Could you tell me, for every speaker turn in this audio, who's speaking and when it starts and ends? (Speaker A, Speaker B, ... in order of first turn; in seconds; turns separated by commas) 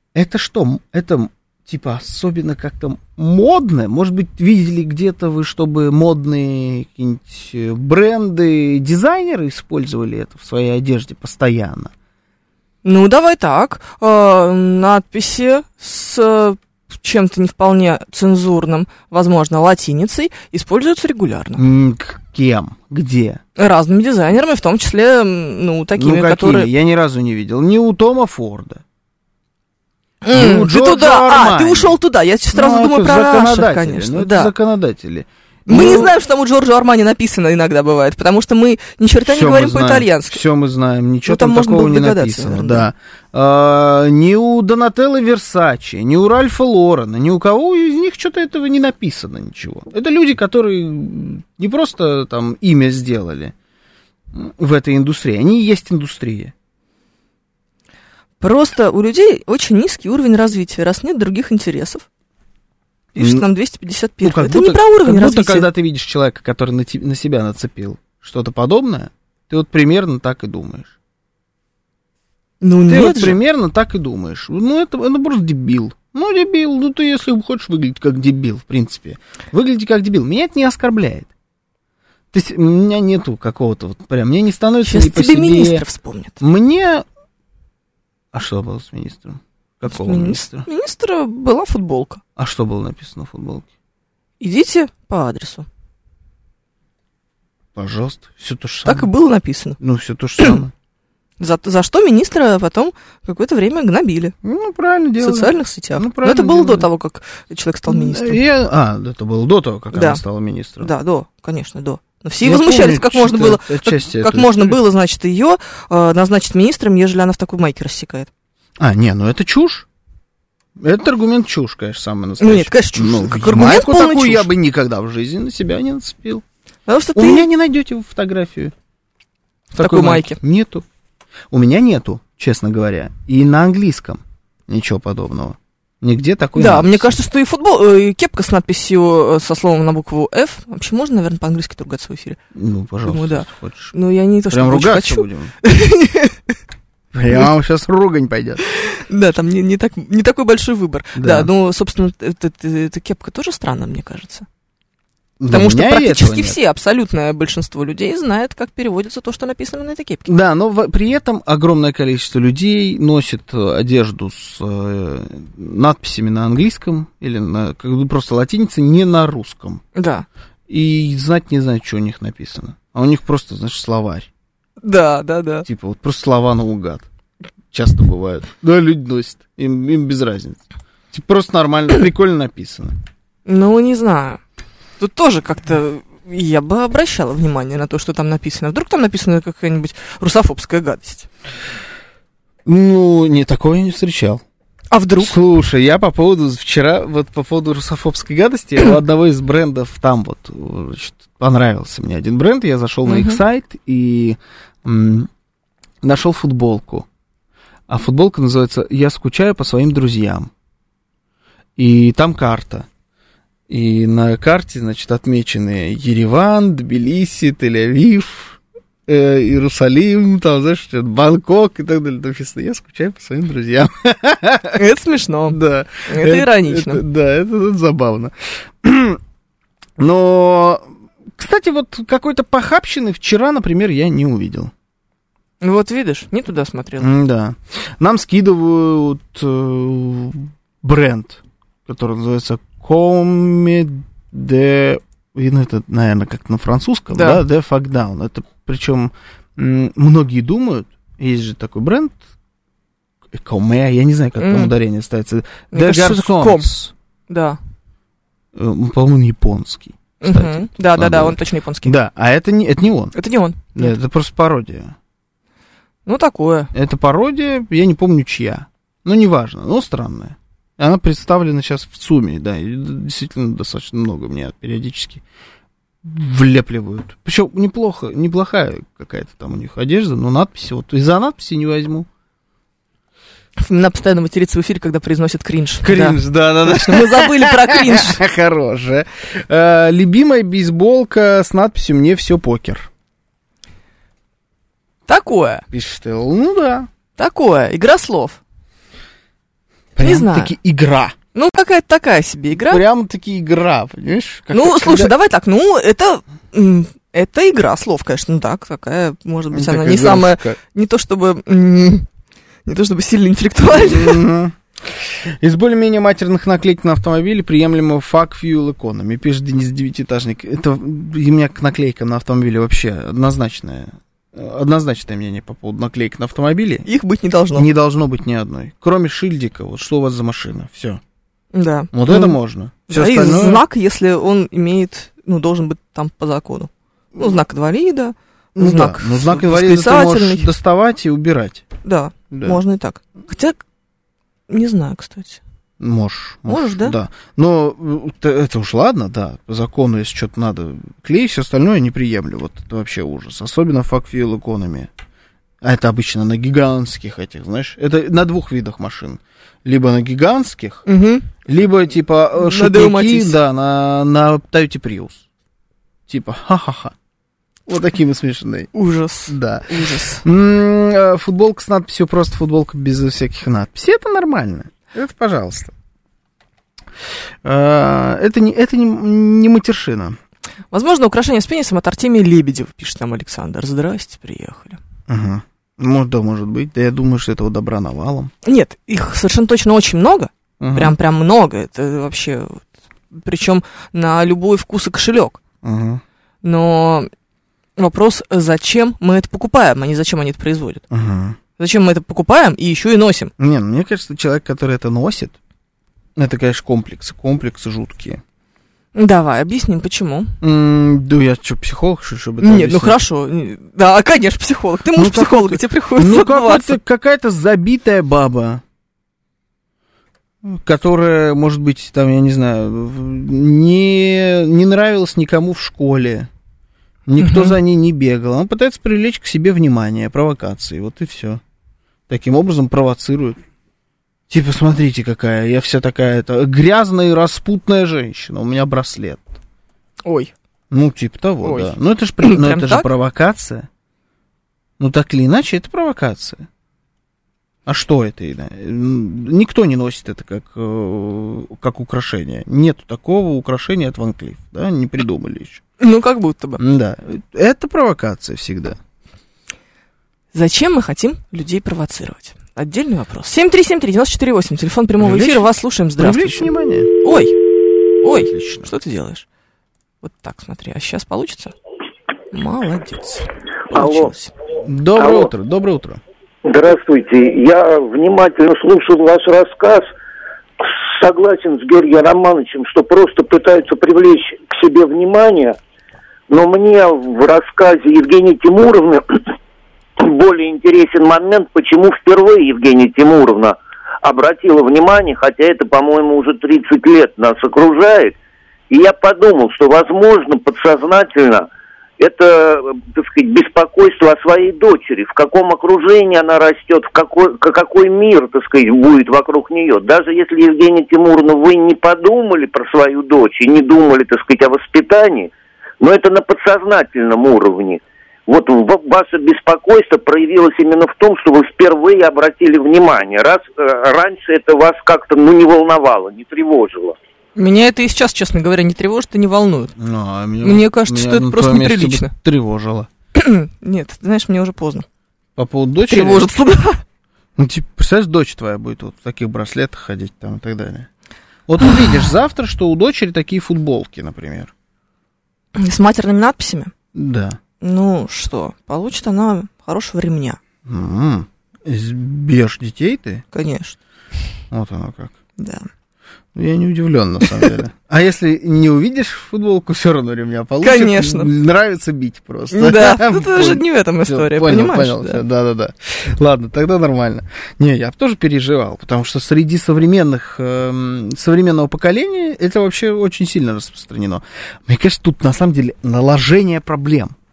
Speaker A: 0.1-11.9, Speaker B: 12.8-21.6, Speaker A: 21.6-23.4, Speaker B: 23.6-26.7, Speaker A: 26.0-28.8, Speaker B: 30.2-34.5, Speaker A: 30.3-32.0, Speaker A: 32.5-36.1, Speaker B: 35.7-40.4, Speaker A: 39.2-53.5, Speaker B: 41.3-42.9, Speaker A: 54.3-56.5, Speaker B: 58.4-62.0, Speaker B: 63.1-65.7, Speaker A: 63.2-63.5, Speaker A: 64.2-70.9, Speaker B: 72.6-73.4, Speaker A: 72.9-81.3, Speaker A: 82.3-85.8, Speaker B: 84.8-86.4, Speaker A: 86.4-87.0, Speaker A: 88.3-90.7, Speaker B: 89.9-92.2, Speaker A: 92.4-93.7, Speaker B: 94.4-95.7, Speaker A: 97.8-99.1, Speaker B: 98.9-99.8, Speaker A: 99.8-100.7, Speaker B: 101.4-104.3, Speaker A: 104.4-106.9, Speaker B: 105.2-108.4, Speaker A: 107.9-110.9, Speaker B: 109.9-110.2, Speaker B: 110.8-118.3, Speaker A: 112.4-114.8, Speaker A: 118.8-119.9, Speaker A: 120.8-126.4, Speaker B: 122.4-124.5, Speaker B: 126.9-127.5, Speaker A: 127.2-128.7, Speaker A: 129.7-130.8, Speaker B: 129.8-130.4, Speaker A: 131.5-137.2, Speaker B: 136.6-142.4, Speaker A: 142.5-143.9, Speaker B: 143.1-146.4, Speaker A: 144.5-145.5, Speaker A: 147.1-148.6, Speaker B: 148.6-154.5, Speaker A: 151.2-151.5, Speaker A: 155.4-156.6, Speaker B: 155.5-160.3, Speaker A: 160.3-169.8, Speaker B: 169.9-170.3, Speaker A: 170.7-174.3, Speaker B: 174.8-175.7, Speaker A: 175.7-177.1, Speaker A: 177.7-182.9, Speaker B: 183.5-184.4, Speaker B: 185.0-191.3, Speaker A: 192.7-194.4, Speaker B: 194.9-195.4, Speaker A: 195.2-205.3, Speaker B: 203.1-203.4, Speaker A: 206.0-207.1, Speaker A: 207.9-210.5, Speaker A: 211.8-212.9, Speaker A: 213.7-224.8, Speaker B: 224.8-227.0, Speaker A: 225.5-229.2, Speaker A: 230.0-234.7, Speaker B: 235.6-237.1, Speaker A: 237.0-252.2, Speaker B: 247.1-247.4, Speaker A: 253.3-256.9, Speaker B: 254.4-254.7, Speaker B: 255.7-256.8, Speaker B: 257.3-257.6, Speaker A: 258.6-263.1, Speaker B: 260.2-262.0, Speaker B: 263.1-263.9, Speaker A: 263.8-264.9, Speaker B: 266.1-266.7, Speaker A: 266.7-275.2, Speaker A: 276.0-282.1, Speaker B: 283.6-288.2, Speaker A: 285.8-292.9, Speaker B: 295.1-295.6, Speaker A: 295.7-296.9, Speaker B: 297.2-298.4, Speaker A: 299.9-301.1, Speaker B: 300.0-300.5, Speaker B: 301.4-302.8, Speaker A: 302.7-305.1, Speaker B: 304.5-312.1, Speaker A: 309.5-310.6, Speaker B: 312.7-314.3, Speaker A: 313.7-326.9, Speaker B: 326.9-327.7, Speaker A: 327.5-331.0, Speaker B: 331.5-332.4, Speaker A: 331.9-333.6, Speaker B: 332.9-340.5, Speaker A: 338.6-341.6, Speaker B: 341.8-343.6, Speaker A: 342.3-342.6, Speaker B: 344.5-345.4, Speaker A: 345.8-354.9, Speaker B: 346.5-346.9, Speaker A: 355.6-360.9, Speaker B: 360.9-361.3, Speaker A: 361.4-365.2, Speaker B: 362.4-363.4, Speaker A: 366.1-366.9, Speaker A: 367.7-368.7, Speaker B: 368.7-370.2, Speaker A: 369.3-369.7, Speaker A: 370.2-375.7, Speaker A: 377.4-380.2, Speaker B: 380.7-384.8, Speaker A: 385.1-388.3, Speaker B: 388.4-395.4, Speaker A: 390.6-390.9, Speaker A: 395.6-396.0, Speaker B: 396.4-397.1, Speaker B: 397.8-400.8, Speaker A: 400.9-401.4, Speaker B: 401.6-403.3, Speaker A: 403.4-405.4, Speaker A: 406.2-408.2, Speaker B: 408.9-410.3, Speaker A: 410.4-413.0, Speaker B: 412.4-416.8, Speaker A: 414.9-418.6, Speaker A: 420.4-426.3, Speaker A: 427.1-431.4, Speaker B: 427.2-427.6, Speaker A: 432.1-433.4, Speaker A: 434.3-439.3, Speaker B: 440.1-440.3, Speaker A: 440.7-443.7, Speaker B: 441.4-442.9, Speaker A: 444.8-446.5, Speaker A: 447.7-455.6, Speaker B: 455.8-456.6, Speaker A: 456.6-458.8, Speaker B: 460.3-466.5, Speaker A: 465.0-467.0, Speaker B: 467.0-467.4, Speaker B: 468.0-469.3, Speaker A: 468.1-468.7, Speaker B: 470.0-471.5, Speaker B: 472.3-474.3, Speaker C: 473.7-474.1, Speaker A: 474.6-476.0, Speaker C: 475.0-475.3, Speaker C: 476.4-479.9, Speaker C: 480.6-485.6, Speaker C: 486.3-489.2, Speaker C: 490.0-498.2, Speaker C: 498.7-501.5, Speaker C: 502.0-515.3, Speaker C: 515.8-527.0, Speaker B: 527.4-529.7, Speaker A: 529.8-532.9, Speaker B: 530.4-532.1, Speaker B: 533.1-534.9, Speaker A: 535.4-536.3, Speaker B: 535.8-536.8, Speaker A: 537.4-540.9, Speaker A: 541.5-544.5, Speaker B: 545.5-546.7, Speaker A: 546.9-547.4, Speaker B: 547.6-550.4, Speaker A: 550.6-553.2, Speaker B: 553.3-553.8, Speaker A: 554.5-555.1, Speaker B: 555.4-555.7, Speaker A: 556.4-577.1, Speaker B: 560.6-561.3, Speaker B: 562.5-565.2